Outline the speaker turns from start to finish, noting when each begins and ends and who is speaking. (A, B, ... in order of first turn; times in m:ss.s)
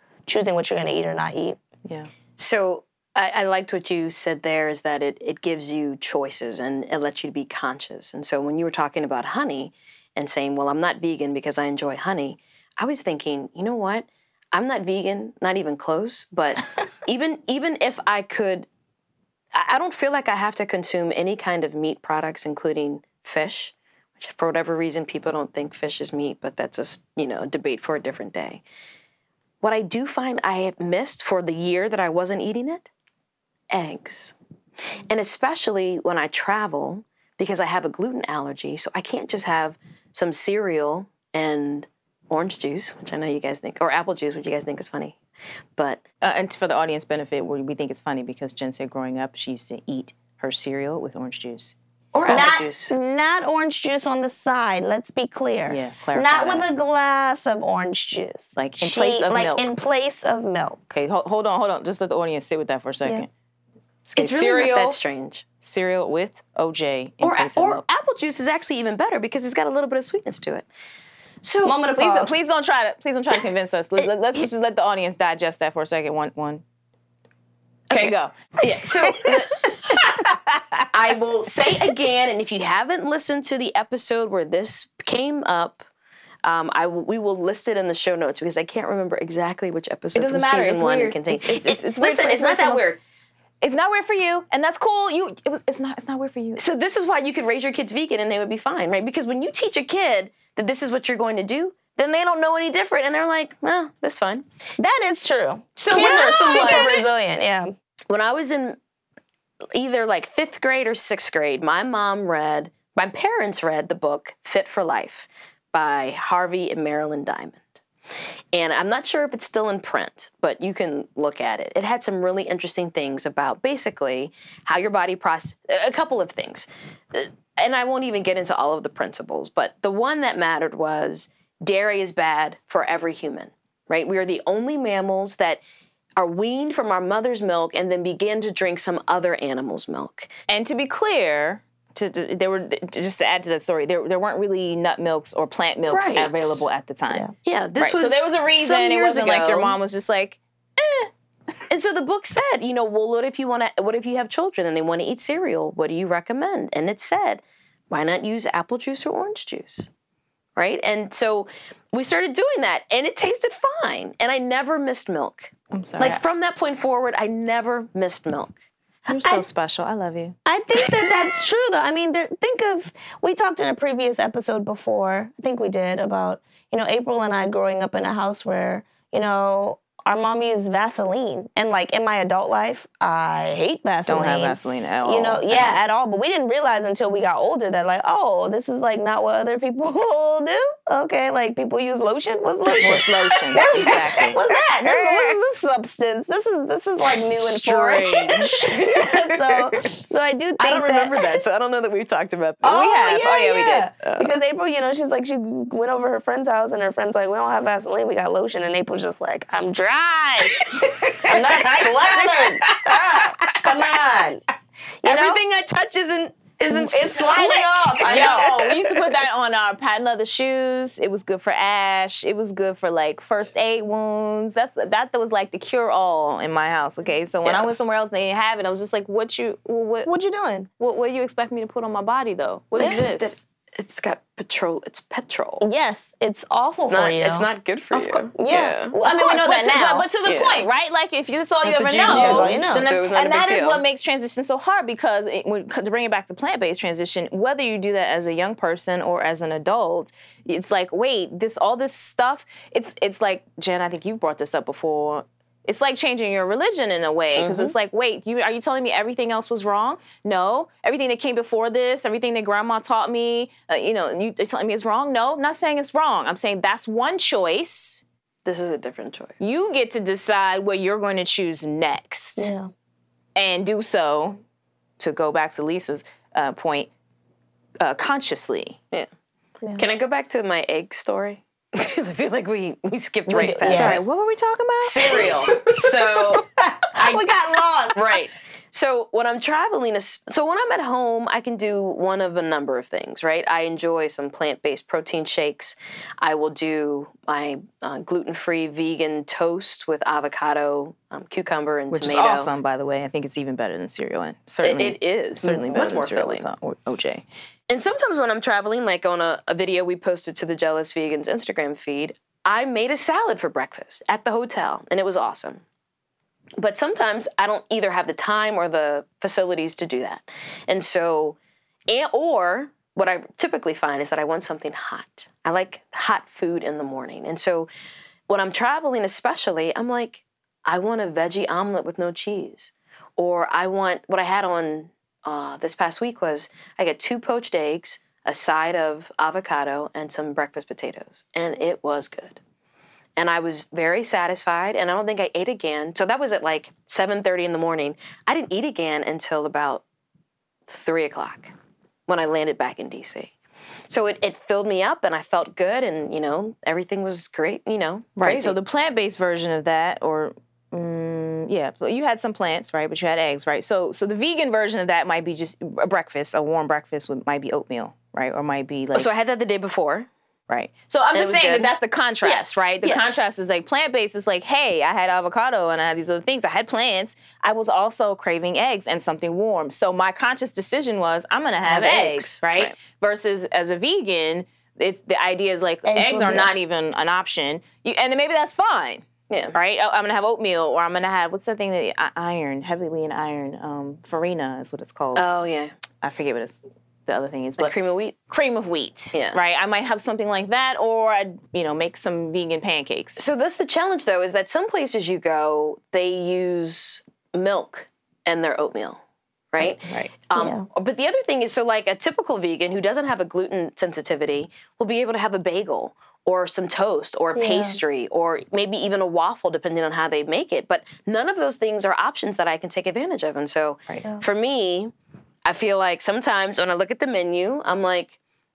0:00.3-0:01.6 A
0:02.4-0:18.7 B
0:19.5-0:28.6 B
0:29.6-0:32.9 B
0:33.7-0:34.3 B
0:35.0-0:45.2 B
0:45.8-0:46.0 B
0:46.2-0:51.8 C
0:52.1-0:52.9 B
0:52.3-1:00.9 A
0:55.7-0:56.7 C
0:58.6-0:59.7 C
1:00.9-1:03.3 C
1:04.0-1:05.0 C
1:04.2-1:05.4 B
1:05.6-1:07.8 C
1:07.2-1:10.7 B
1:11.4-1:11.8 B
1:11.6-1:12.4 A
1:11.9-1:16.6 C
1:17.9-1:20.0 B
1:17.9-1:20.9 C
1:20.9-1:25.8 B
1:26.4-1:33.0 B
1:30.1-1:32.9 C
1:33.6-1:36.6 C
1:36.6-1:44.4 B
1:44.8-1:47.8 A
1:45.8-1:47.0 B
1:45.9-1:47.0 C
1:48.1-1:48.8 B
1:49.7-1:57.8 B
1:58.5-2:15.6 B
2:16.2-2:20.3 B
2:20.5-2:27.3 C
2:25.9-2:26.7 B
2:27.4-2:29.8 B
2:27.8-2:31.1 C
2:31.7-2:39.9 B
2:40.6-2:48.6 B
2:45.7-2:46.2 C
2:49.1-2:51.1 C
2:49.1-2:49.4 A
2:50.4-3:21.3 A
3:04.0-3:05.8 C
3:12.8-3:14.4 C
3:13.5-3:14.2 B
3:17.4-3:19.8 B
3:20.6-3:22.8 B
3:22.6-3:34.4 A
3:22.6-3:23.9 C
3:24.0-3:24.3 B
3:30.7-3:33.7 B
3:35.0-3:35.4 A
3:35.0-3:39.0 B
3:36.6-3:38.6 A
3:38.0-3:50.1 C
3:47.4-3:47.8 B
3:50.0-3:50.7 A
3:50.8-3:53.3 C
3:52.8-3:55.6 B
3:52.8-3:53.0 A
3:55.6-3:57.4 A
3:56.8-3:59.0 B
3:57.9-3:58.2 C
3:58.3-4:00.1 A
3:59.0-4:28.0 C
4:00.2-4:00.7 B
4:01.6-4:03.8 B
4:02.0-4:02.9 A
4:17.4-4:17.7 B
4:28.4-4:29.4 B
4:29.4-4:32.5 C
4:32.4-4:32.7 A
4:33.3-4:34.4 C
4:35.0-4:36.9 C
4:37.8-4:38.8 C
4:39.8-4:44.0 B
4:43.3-4:45.5 C
4:43.6-4:44.0 A
4:44.8-4:47.3 B
4:46.6-4:48.2 A
4:47.9-5:02.5 B
5:01.9-5:07.2 C
5:04.6-5:06.5 B
5:07.7-5:15.6 B
5:16.6-5:21.4 B
5:21.9-5:27.7 B
5:28.3-5:42.4 B
5:43.2-5:49.8 B
5:50.7-5:51.5 B
5:52.1-5:53.3 B
5:53.9-5:58.6 B
5:58.2-6:09.1 C
6:08.9-6:10.1 B
6:10.5-6:35.2 C
6:11.1-6:11.7 B
6:12.2-6:13.2 B
6:21.6-6:22.8 B
6:25.8-6:26.5 A
6:29.3-6:29.6 B
6:35.1-6:35.7 B
6:36.0-6:37.8 C
6:37.6-6:38.1 B
6:38.3-6:43.2 C
6:39.1-6:39.4 B
6:43.2-6:49.0 B
6:49.5-7:04.9 B
6:49.6-6:50.1 C
6:50.4-6:50.6 A
6:57.4-6:57.8 A
7:05.4-7:08.2 B